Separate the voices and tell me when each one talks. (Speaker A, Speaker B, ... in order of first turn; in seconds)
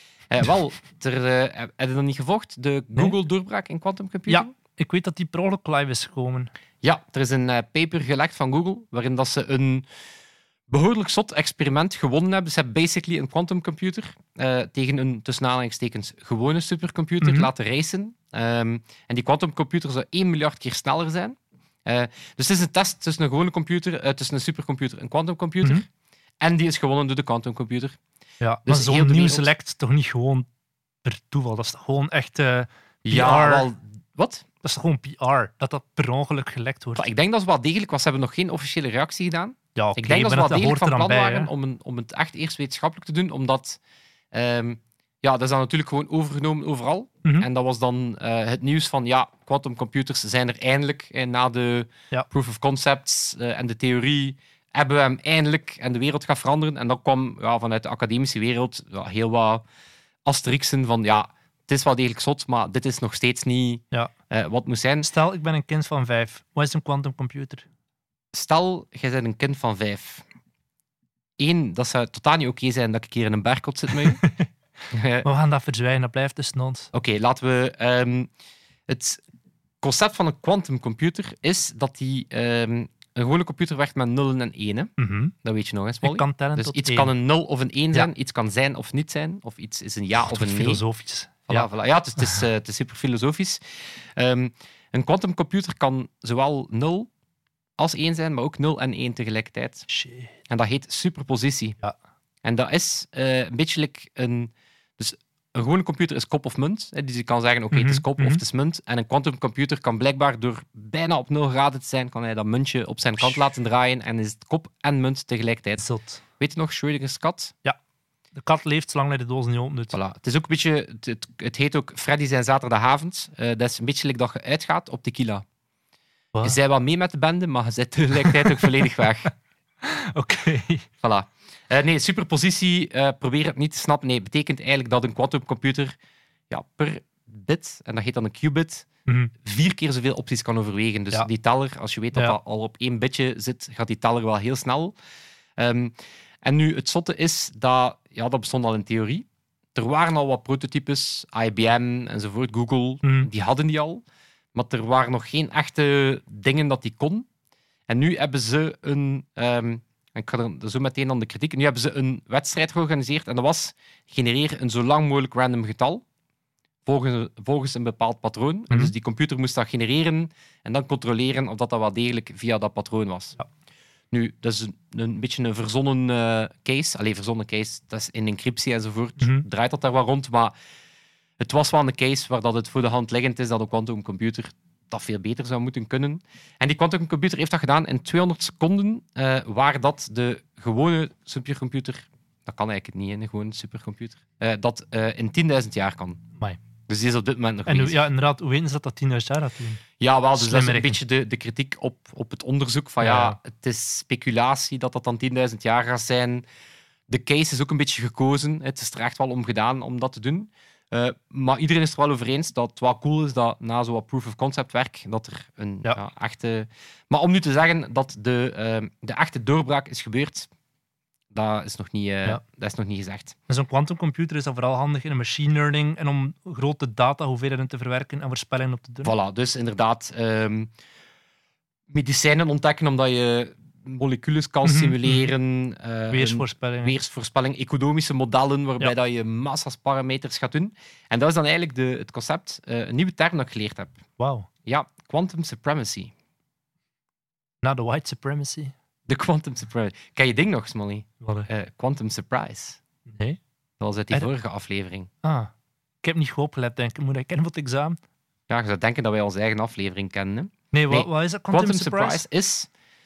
Speaker A: 0.3-4.5, 6.8-9.9, 10.7-25.9, 26.4-28.0, 28.7-29.5, 33.1-34.5, 37.0-43.8, 44.3-59.6, 60.2-65.1, 68.3-70.2, 71.4-74.2, 74.9-75.3, 76.9-78.3, 78.9-79.2, 79.8-90.8, 91.5-97.1, 97.8-99.9, 100.5-101.8, 102.4-115.9, 116.4-117.5, 119.9-125.5, 126.4-129.3, 131.0-136.0, 136.5-138.9, 139.4-144.9, 145.6-154.0, 154.6-157.3, 157.9-166.0, 166.9-173.4, 174.1-180.5, 181.4-196.2, 196.9-198.1, 200.0-206.4, 207.1-220.5, 221.3-223.3, 229.0-230.7, 231.9-244.0, 244.7-246.1, 249.1-252.8, 253.8-255.1, 258.5-262.7
Speaker B: 4.3-6.5, 17.2-17.5, 28.4-30.5, 31.1-33.7, 34.6-37.1, 39.8-41.5, 65.0-67.7, 75.2-76.9, 85.0-85.3, 86.0-87.1, 90.3-91.7, 99.9-100.3, 107.7-108.4, 115.8-116.2, 118.3-120.0, 129.8-130.9, 139.1-139.3, 153.0-153.3, 179.2-179.4, 197.7-199.8, 200.4-201.0, 203.0-203.4, 223.5-229.1, 234.6-235.3, 236.1-236.9, 244.2-244.5, 247.6-248.7, 251.2-251.5, 253.1-253.4, 255.2-255.5, 256.0-258.0, 260.7-262.2